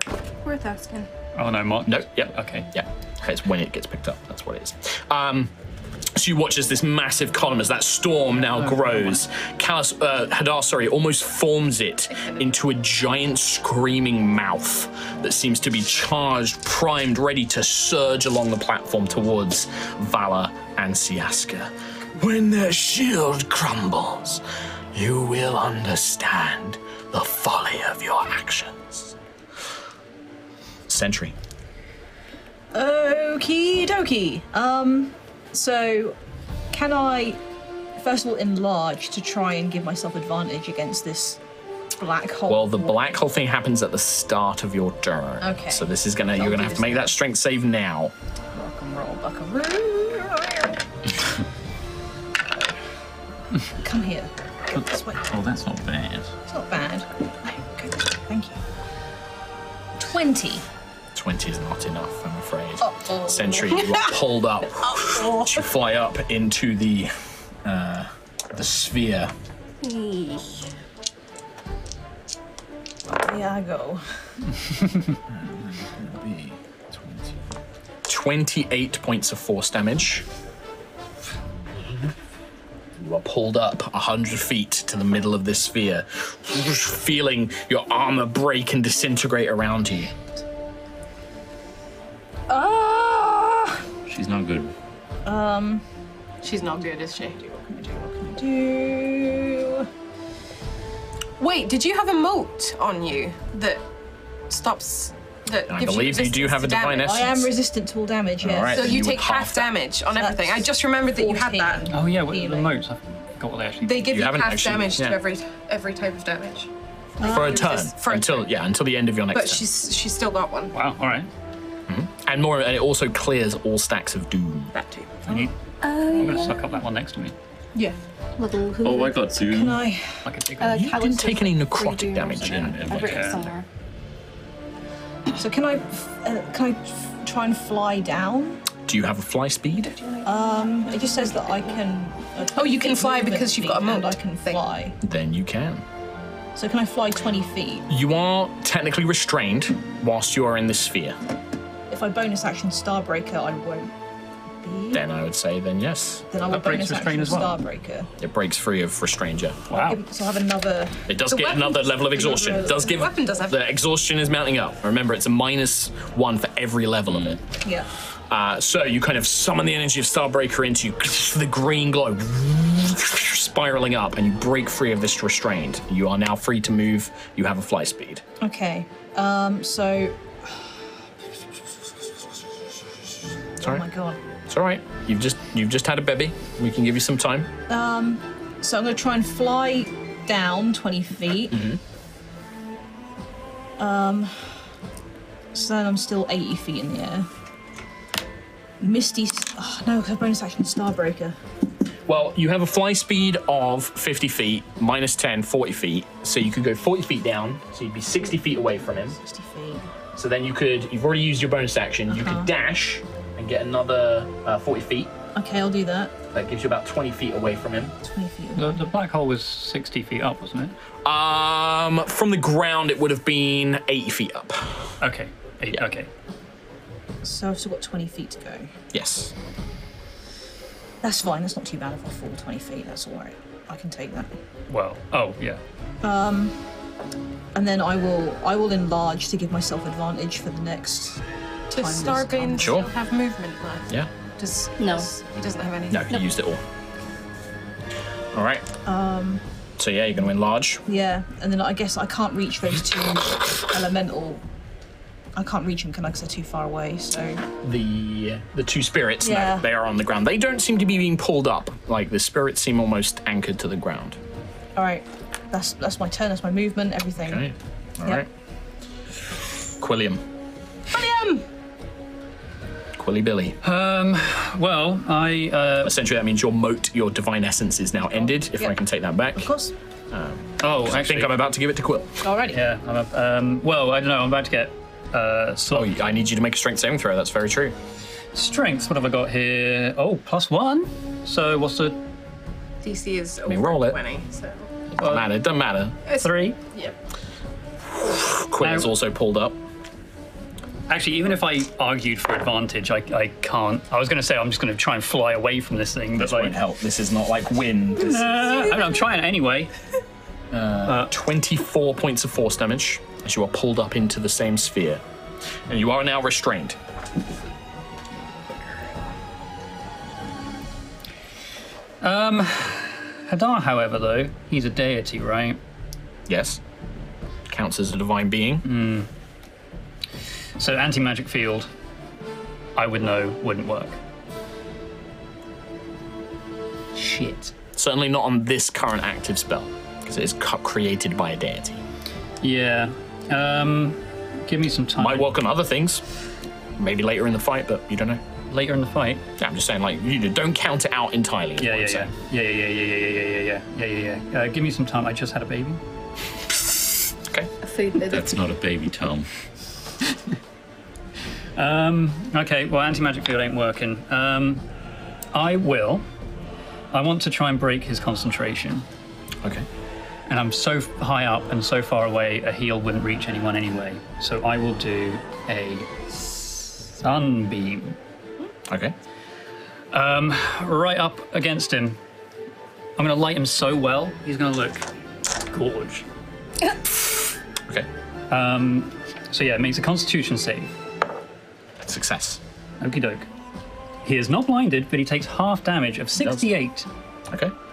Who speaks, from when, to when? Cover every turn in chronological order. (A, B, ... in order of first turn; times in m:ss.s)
0:00.4-0:01.1 A
0:01.4-0:02.7 B
0:01.9-0:05.5 C
0:06.2-0:24.4 C
0:08.6-0:09.2 B
0:12.1-0:12.6 D
0:24.9-0:29.2 C
0:30.9-0:31.4 C
0:32.7-0:36.2 E
0:36.7-0:37.4 E
0:38.0-0:41.4 E
0:42.0-0:43.1 E
0:42.5-0:48.1 C
0:45.4-0:47.1 E
0:48.5-0:50.8 E
0:53.8-0:55.3 E
0:54.7-0:56.3 F
0:56.5-0:58.6 E
1:00.0-1:00.6 E
1:01.2-1:07.1 C
1:02.8-1:03.5 E
1:07.6-1:09.3 C
1:09.8-1:10.6 A
1:13.1-1:14.0 E
1:16.2-1:16.5 F
1:18.1-1:20.3 C
1:23.0-1:30.1 C
1:32.5-1:33.8 E
1:34.1-1:34.7 F
1:35.2-1:35.8 E
1:36.4-1:37.4 D
1:37.2-1:39.9 E
1:41.4-1:43.8 D
1:44.5-1:47.2 D
1:45.7-1:47.5 C
1:47.0-1:49.0 E
1:48.4-1:49.8 C
1:48.7-1:51.9 D
1:50.2-1:52.8 E
1:51.9-1:54.2 B
1:53.8-1:58.5 D
1:54.1-1:55.2 C
1:57.2-1:57.8 E
1:57.2-1:59.6 C
1:59.3-2:00.8 D
2:00.7-2:01.3 B
2:01.9-2:04.7 C
2:04.7-2:05.2 D
2:05.3-2:05.5 B
2:05.8-2:06.6 A
2:06.1-2:07.4 B
2:08.4-2:09.4 A
2:08.8-2:09.8 F
2:09.4-2:10.1 E
2:10.2-2:11.0 B
2:10.6-2:13.7 A
2:10.7-2:13.0 C
2:12.4-2:13.5 F
2:12.9-2:13.4 B
2:15.4-2:18.6 E
2:18.9-2:19.9 C
2:19.8-2:21.8 A
2:20.2-2:25.0 E
2:22.6-2:24.6 D
2:25.0-2:25.8 C
2:26.6-2:27.9 E
2:27.9-2:31.2 C
2:31.9-2:33.9 E
2:34.6-2:35.0 E
2:34.9-2:36.2 C
2:36.3-2:38.1 E
2:36.5-2:37.6 B
2:38.2-2:39.7 C
2:39.7-2:40.0 B
2:39.7-2:41.1 E
2:41.1-2:47.4 C
2:41.3-2:43.7 D
2:42.2-2:42.9 E
2:47.6-2:47.9 E
2:48.3-2:58.2 C
2:58.4-3:00.7 E
3:03.6-3:04.2 E
3:04.5-3:07.5 C
3:07.7-3:11.6 E
3:11.5-3:11.8 C
3:13.8-3:14.5 E
3:15.5-3:17.3 E
3:18.8-3:21.4 E
3:22.1-3:29.2 C
3:29.1-3:29.9 E
3:30.2-3:35.1 C
3:32.1-3:32.5 E
3:35.4-3:36.1 E
3:36.3-3:38.0 C
3:38.0-3:38.9 E
3:38.6-3:40.8 B
3:41.0-3:44.8 C
3:45.0-3:46.1 B
3:47.2-3:48.7 E
3:48.9-3:49.3 C
3:51.0-3:54.3 E
3:54.7-3:55.6 B
3:56.0-3:56.6 E
3:57.6-4:01.2 E
4:01.7-4:06.2 D
4:01.7-4:02.7 E
4:02.6-4:02.9 C
4:04.8-4:05.1 A
4:05.9-4:06.6 C
4:08.3-4:08.7 C
4:08.9-4:09.4 E
4:09.8-4:10.8 C
4:10.9-4:14.4 E
4:15.4-4:17.4 E
4:17.6-4:24.2 C
4:19.2-4:19.7 E
4:24.8-4:27.4 E
4:27.2-4:28.3 C
4:29.8-4:30.2 C
4:30.9-4:31.4 D
4:33.0-4:33.6 C
4:33.6-4:36.0 B
4:35.8-4:39.5 C
4:38.4-4:38.7 E
4:39.4-4:39.7 E
4:40.1-4:42.3 C
4:40.6-4:41.5 B
4:42.2-4:42.6 E
4:42.5-4:45.9 B
4:45.7-4:47.8 C
4:48.3-4:52.0 B
4:52.8-4:54.7 D
4:53.5-4:54.0 C
4:55.0-4:56.0 C
4:55.0-4:55.3 B
4:56.1-4:57.0 D
4:56.2-4:56.6 B
4:58.0-4:59.6 C
4:58.6-4:58.9 B
5:00.9-5:06.6 B
5:06.2-5:08.6 C
5:08.0-5:09.7 B
5:10.5-5:15.0 C
5:10.8-5:11.1 B
5:15.7-5:16.8 C
5:22.0-5:25.6 B
5:26.3-5:26.6 C
5:27.5-5:28.6 C
5:28.6-5:29.1 B
5:30.6-5:31.7 B
5:32.8-5:34.0 B
5:37.0-5:37.4 B
5:37.7-5:41.8 C
5:42.4-5:45.3 B
5:45.0-5:46.0 C
5:46.8-5:48.2 C
5:48.5-5:49.2 B
5:49.4-5:52.1 C
5:51.6-5:55.8 B
5:57.6-5:58.4 A
5:58.1-5:59.3 F
6:01.6-6:04.6 B
6:05.3-6:06.0 B
6:06.9-6:08.8 B
6:10.3-6:18.0 B
6:18.7-6:19.0 C
6:19.9-6:22.0 B
6:23.0-6:24.9 B
6:25.4-6:26.0 B
6:28.3-6:30.7 B
6:31.8-6:32.4 C
6:32.8-6:33.3 B
6:34.0-6:36.9 B
6:36.2-6:36.5 C